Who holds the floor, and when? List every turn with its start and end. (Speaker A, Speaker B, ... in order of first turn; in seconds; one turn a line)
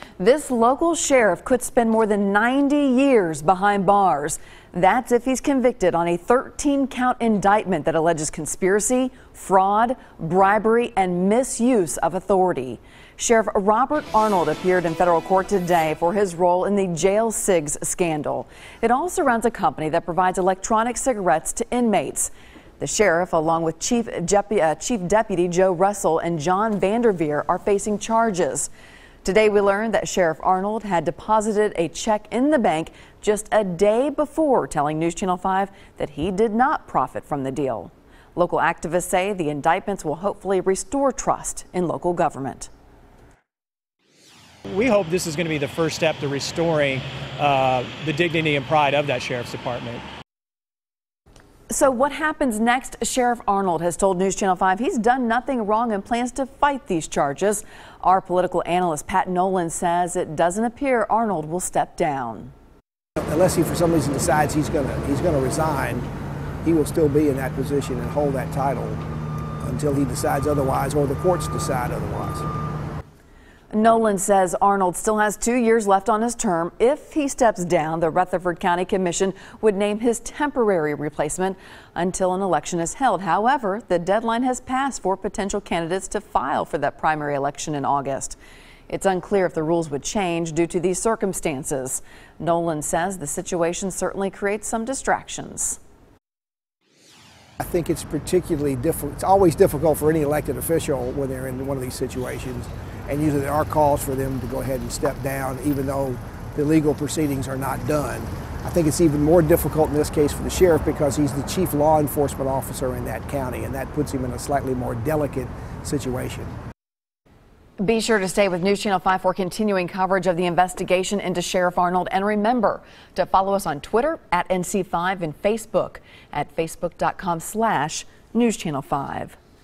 Speaker A: 0.2-28.7
Speaker A: 29.2-42.7
Speaker B: 44.7-50.0
Speaker A: 51.7-62.5
Speaker C: 63.2-66.1
Speaker C: 66.6-69.0
Speaker C: 69.6-72.5
Speaker A: 73.7-88.4
Speaker A: 88.9-95.8
Speaker C: 97.6-116.5
Speaker A: 117.8-129.4